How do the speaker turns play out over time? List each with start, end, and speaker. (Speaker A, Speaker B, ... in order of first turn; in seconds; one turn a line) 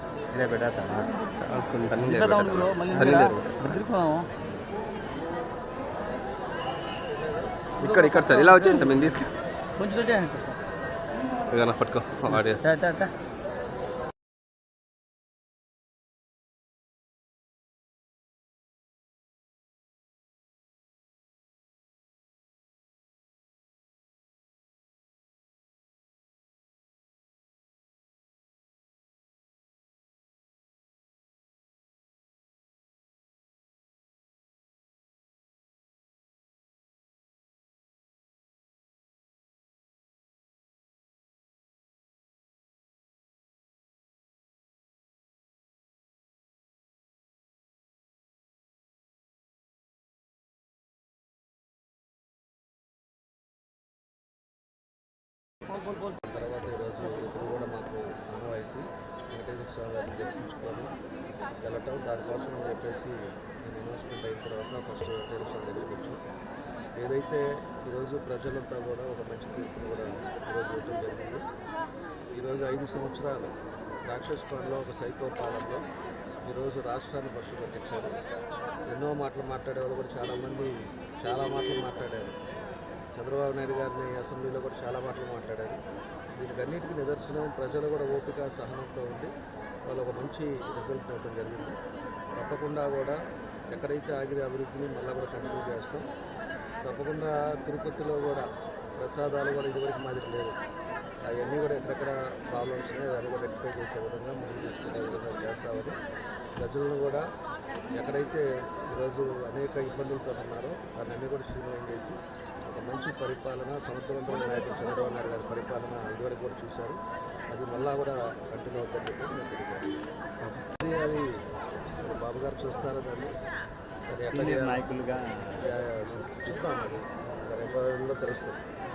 Speaker A: 0.4-1.1
Speaker B: 1.3-3.7
Speaker A: 2.0-4.3
Speaker B: 7.8-9.3
Speaker A: 7.8-9.2
Speaker A: 9.8-10.6
Speaker B: 11.5-12.6
Speaker A: 12.5-13.1
Speaker C: 56.2-61.0
Speaker C: 61.6-66.2
Speaker C: 66.9-71.4
Speaker C: 72.4-73.5
Speaker C: 74.0-75.8
Speaker C: 76.5-78.3
Speaker C: 78.9-82.4
Speaker C: 83.1-85.8
Speaker C: 86.4-89.3
Speaker C: 89.8-91.8
Speaker C: 92.3-93.2
Speaker C: 93.7-96.1
Speaker C: 96.8-100.6
Speaker C: 101.3-106.0
Speaker C: 106.6-107.2
Speaker C: 108.0-117.0
Speaker C: 117.5-119.9
Speaker C: 120.7-121.3
Speaker C: 122.0-123.3
Speaker C: 124.1-124.8
Speaker A: 124.3-125.6
Speaker C: 125.6-128.6